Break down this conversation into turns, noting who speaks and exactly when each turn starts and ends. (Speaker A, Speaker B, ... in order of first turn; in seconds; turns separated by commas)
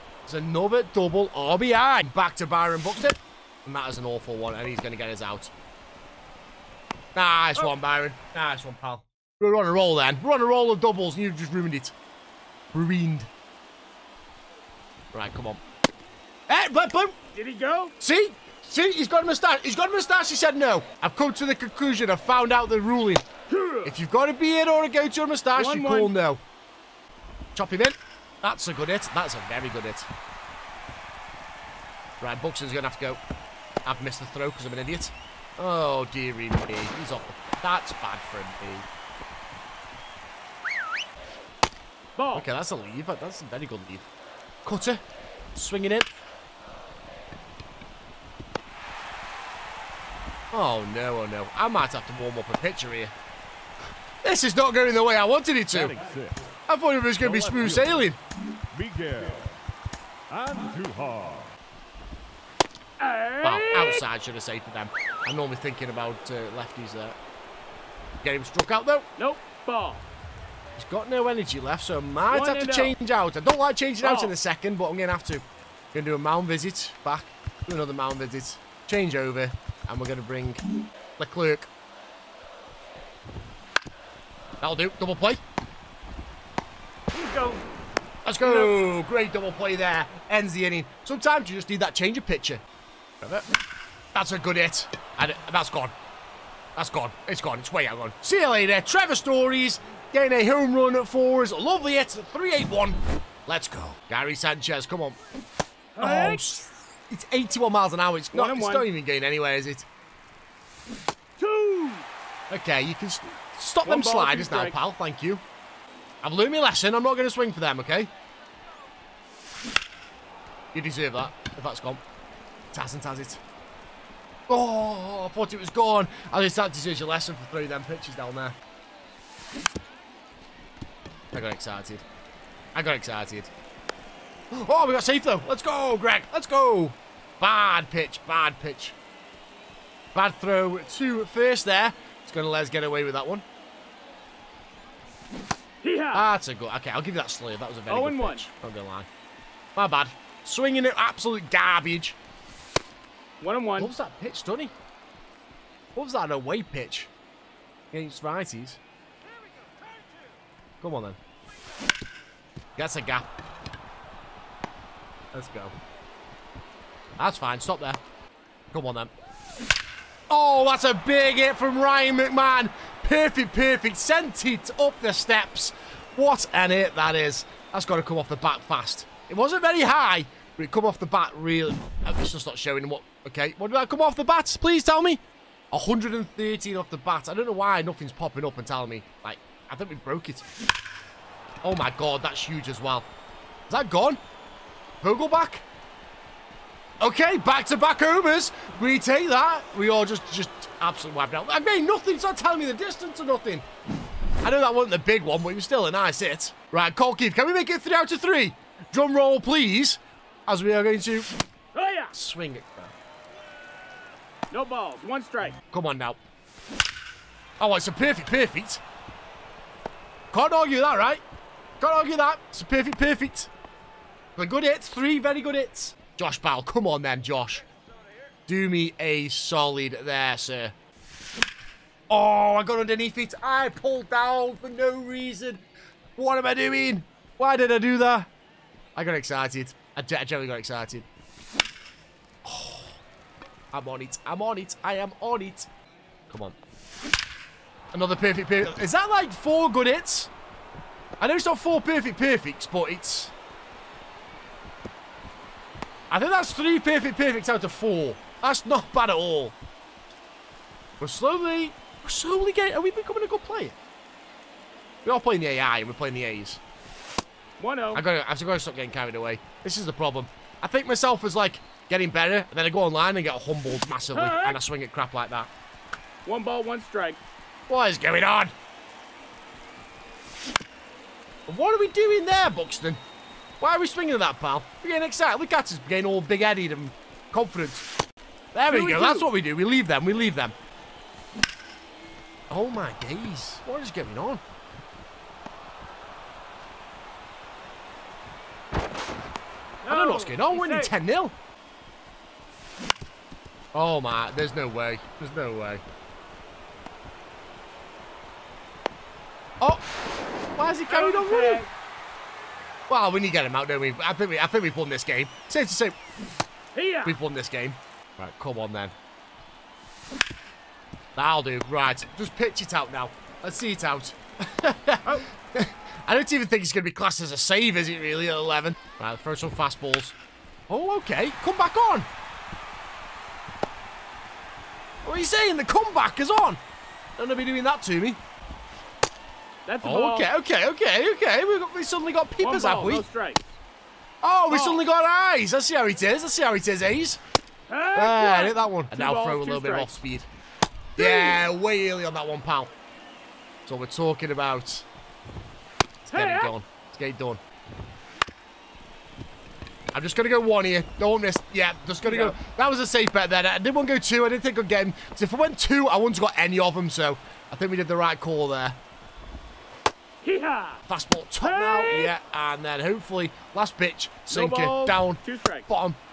Speaker A: 0.3-5.5, Speaker A: 7.2-11.9, Speaker A: 12.7-13.3, Speaker A: 15.1-15.6, Speaker A: 16.5-17.2, Speaker B: 17.4-17.9, Speaker A: 18.0-23.2, Speaker B: 23.5-23.9, Speaker A: 23.9-26.4, Speaker B: 25.6-26.1, Speaker A: 27.6-30.1, Speaker A: 32.2-33.2, Speaker A: 33.9-38.9, Speaker B: 42.2-42.5, Speaker A: 42.3-44.0, Speaker A: 44.6-45.0, Speaker A: 45.6-46.2, Speaker A: 50.5-53.1, Speaker A: 54.2-55.9, Speaker C: 55.7-56.5, Speaker A: 56.7-58.2, Speaker C: 57.2-58.1, Speaker C: 58.7-59.6, Speaker C: 60.3-61.6, Speaker B: 63.0-64.0, Speaker A: 63.4-67.2, Speaker A: 68.2-69.1, Speaker B: 69.2-70.0, Speaker A: 70.8-80.6, Speaker B: 72.3-72.9, Speaker B: 74.0-74.3, Speaker A: 81.2-81.7, Speaker A: 84.6-85.4, Speaker B: 87.1-87.7, Speaker A: 88.2-92.6, Speaker B: 88.4-88.8, Speaker A: 94.1-95.9, Speaker A: 96.8-105.2, Speaker B: 106.0-106.5, Speaker A: 106.0-109.9, Speaker B: 108.3-108.8, Speaker B: 111.4-112.1, Speaker A: 112.5-115.4, Speaker B: 113.8-114.8, Speaker A: 116.2-118.1, Speaker A: 120.7-122.0, Speaker A: 122.7-123.4, Speaker A: 124.5-128.6, Speaker A: 131.3-132.0, Speaker A: 132.8-133.5, Speaker A: 134.5-139.0, Speaker A: 140.1-143.4, Speaker B: 145.8-146.2, Speaker A: 146.1-149.1, Speaker B: 147.9-148.5, Speaker A: 149.8-152.2, Speaker B: 153.4-153.9, Speaker A: 153.8-154.7, Speaker A: 156.0-157.1, Speaker A: 157.9-158.8, Speaker A: 160.8-161.2, Speaker A: 162.8-163.3, Speaker A: 165.3-165.8, Speaker A: 167.2-168.0, Speaker A: 168.7-169.1, Speaker A: 170.3-190.4, Speaker A: 191.6-193.1, Speaker A: 193.7-194.2, Speaker A: 195.0-195.7, Speaker A: 197.0-203.6, Speaker A: 204.4-211.3, Speaker B: 211.8-212.1, Speaker A: 212.1-212.9, Speaker B: 214.5-215.6, Speaker A: 215.7-216.2, Speaker A: 217.6-218.8, Speaker A: 220.3-221.2, Speaker A: 221.8-223.5, Speaker A: 224.4-227.6, Speaker A: 228.5-230.8, Speaker A: 232.1-235.6, Speaker A: 236.2-238.3, Speaker A: 239.0-241.1, Speaker A: 242.4-243.0, Speaker A: 243.7-245.7, Speaker A: 246.3-246.6, Speaker A: 247.9-250.3, Speaker A: 251.2-253.3, Speaker A: 256.1-259.6, Speaker A: 261.0-263.8, Speaker A: 265.1-266.6, Speaker B: 267.6-268.0, Speaker A: 267.9-275.5, Speaker B: 274.1-274.6, Speaker B: 276.3-277.2, Speaker A: 277.7-278.5, Speaker A: 281.5-283.0, Speaker A: 283.6-287.9, Speaker A: 288.5-290.6, Speaker B: 288.7-289.3, Speaker A: 292.5-294.4, Speaker B: 299.8-300.9, Speaker A: 299.9-301.4, Speaker A: 303.7-305.8, Speaker A: 310.6-311.7, Speaker B: 310.9-311.7, Speaker A: 312.9-316.0, Speaker B: 316.8-317.2, Speaker A: 317.1-318.9, Speaker A: 321.2-330.2, Speaker A: 330.7-332.1, Speaker A: 335.1-336.6, Speaker A: 337.2-338.2, Speaker B: 339.7-340.3, Speaker A: 339.8-343.1, Speaker B: 342.4-343.6, Speaker A: 344.2-347.2, Speaker B: 344.5-344.8, Speaker B: 347.7-349.9, Speaker A: 347.9-350.3, Speaker B: 351.0-351.4, Speaker A: 351.0-352.7, Speaker A: 353.7-354.9, Speaker A: 356.1-357.4, Speaker B: 356.1-356.5, Speaker A: 359.9-368.8, Speaker B: 362.1-362.4, Speaker B: 370.2-370.8, Speaker A: 370.9-376.0, Speaker B: 371.4-372.1, Speaker B: 374.3-375.7